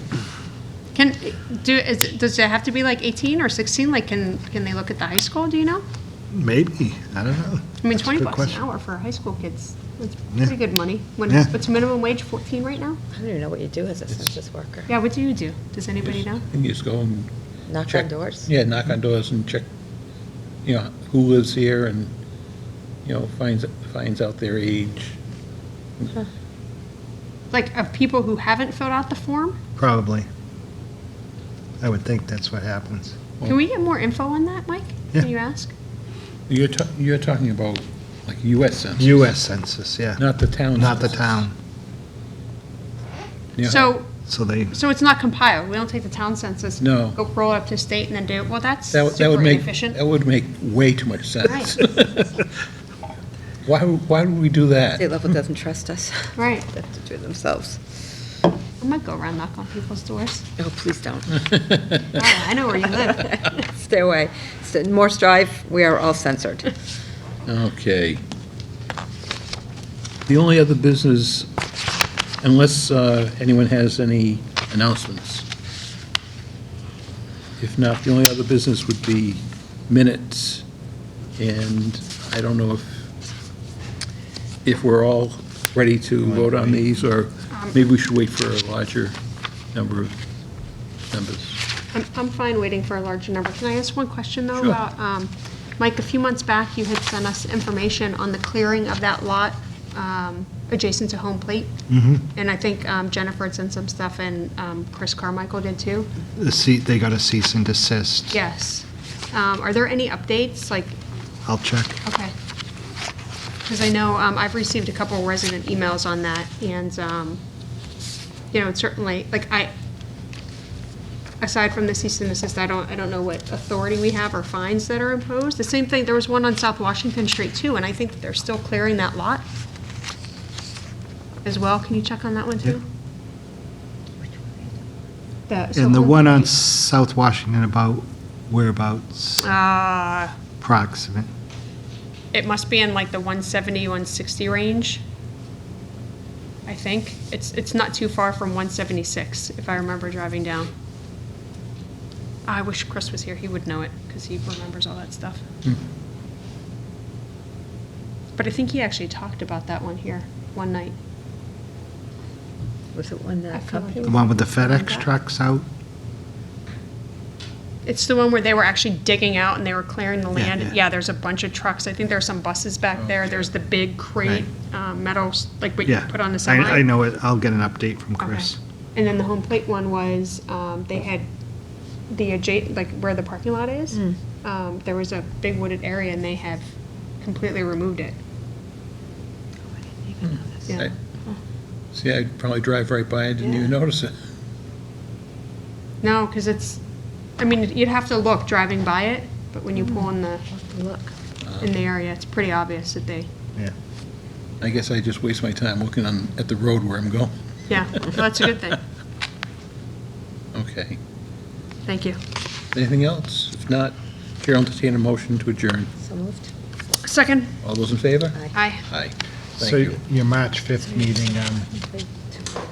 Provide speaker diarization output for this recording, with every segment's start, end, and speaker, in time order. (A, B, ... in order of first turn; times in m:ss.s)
0:00.9-0:05.8 A
0:06.3-0:08.6 B
0:07.8-0:13.0 A
0:13.1-0:14.9 C
0:14.9-0:16.4 A
0:16.1-0:17.3 D
0:17.7-0:18.5 C
0:17.8-0:19.7 D
0:20.6-0:22.1 D
0:23.0-0:25.2 D
0:26.0-0:26.3 D
0:27.5-0:29.6 A
0:29.8-0:30.3 B
0:31.8-0:33.2 B
0:33.4-0:35.7 A
0:36.5-0:39.2 D
0:39.0-0:40.2 B
0:40.2-0:41.4 D
0:40.8-0:41.5 B
0:43.6-0:43.9 D
0:43.6-0:44.1 A
0:44.2-0:44.7 B
0:44.7-0:50.0 A
0:46.8-0:47.2 D
0:48.9-0:52.4 D
0:51.4-0:51.8 A
0:53.7-0:55.1 D
0:55.0-0:58.0 C
0:56.4-0:56.7 A
0:58.8-1:00.5 A
1:00.6-1:01.7 C
1:01.5-1:01.8 D
1:02.1-1:03.5 A
1:03.0-1:06.7 C
1:07.5-1:08.2 D
1:10.3-1:11.5 D
1:12.4-1:15.5 D
1:17.6-1:20.6 D
1:21.4-1:23.1 D
1:24.6-1:29.2 D
1:26.3-1:26.8 B
1:27.5-1:27.8 A
1:29.7-1:30.2 D
1:31.1-1:31.6 D
1:31.9-1:41.7 A
1:41.9-1:42.3 B
1:42.3-1:46.1 A
1:46.4-1:48.4 B
1:48.3-1:51.0 A
1:51.4-1:52.0 B
1:52.0-1:52.3 A
1:53.7-1:57.4 A
1:58.5-1:59.7 A
2:01.4-2:09.4 A
2:11.4-2:12.8 A
2:15.5-2:16.5 A
2:15.8-2:19.5 B
2:19.4-2:20.3 A
2:20.6-2:21.3 B
2:22.3-2:25.0 A
2:26.7-2:30.7 A
2:32.5-2:35.4 A
2:38.4-2:41.0 A
2:42.9-2:44.2 C
2:43.5-2:45.1 A
2:44.1-2:45.6 B
2:47.8-2:56.9 A
2:50.4-2:50.7 B
2:55.9-2:58.6 B
2:58.2-3:01.3 A
3:02.1-3:08.2 A
3:09.8-3:11.4 C
3:10.3-3:10.9 D
3:10.7-3:10.9 A
3:12.0-3:14.1 D
3:16.0-3:16.8 A
3:17.4-3:20.5 A
3:19.8-3:21.1 C
3:21.4-3:21.7 D
3:21.6-3:23.3 A
3:24.6-3:27.3 D
3:27.7-3:28.8 A
3:30.5-3:31.0 D
3:31.9-3:32.2 A
3:32.7-3:35.9 D
3:36.0-3:36.5 C
3:37.0-3:37.6 A
3:37.6-3:40.0 D
3:38.5-3:38.8 A
3:39.6-3:41.7 B
3:41.7-3:42.4 C